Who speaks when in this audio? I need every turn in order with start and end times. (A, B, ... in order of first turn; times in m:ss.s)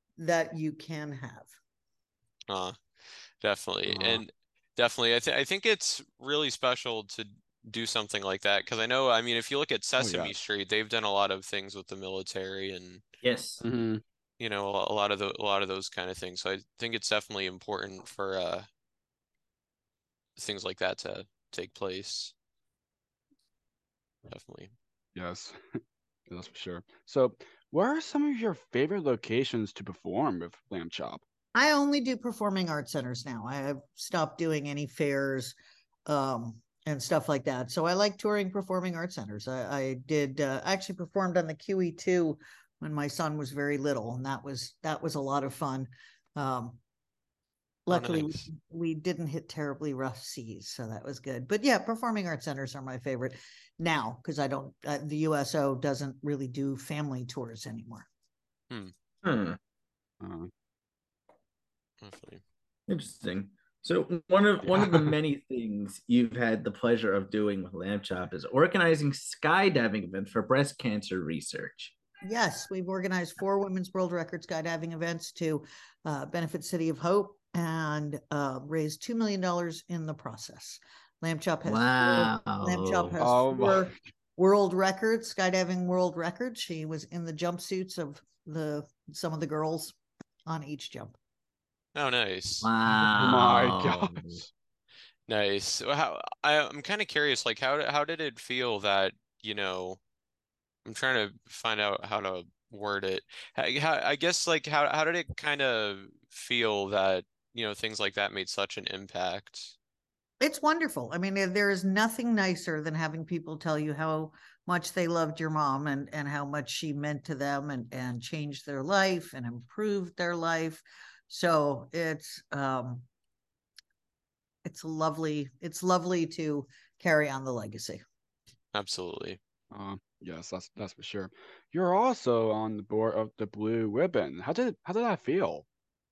0:00.2-0:01.5 A
0:02.5-0:02.8 B
0:03.4-0:13.0 B
0:03.8-0:04.2 C
0:10.0-0:10.4 C
0:13.2-0:13.6 D
0:13.6-0:14.0 C
0:14.4-0:18.7 B
0:20.4-0:22.3 B
0:24.3-0:24.7 B
0:25.1-0:25.6 C
0:26.3-0:31.2 C
0:31.5-0:35.6 A
0:36.1-0:46.8 A
0:47.9-0:58.0 A
0:47.9-0:48.5 B
0:59.2-0:59.6 D
1:00.2-1:00.5 C
1:02.0-1:02.4 B
1:02.9-1:11.9 D
1:04.6-1:05.1 C
1:12.2-1:29.9 A
1:21.6-1:23.2 D
1:23.2-1:23.9 C
1:30.4-1:31.2 A
1:31.9-1:32.7 B
1:32.6-1:34.4 D
1:33.2-1:34.5 C
1:35.3-1:40.0 B
1:40.8-1:49.8 B
1:50.4-2:03.0 A
2:04.6-2:08.0 A
2:08.7-2:09.4 B
2:09.7-2:15.6 C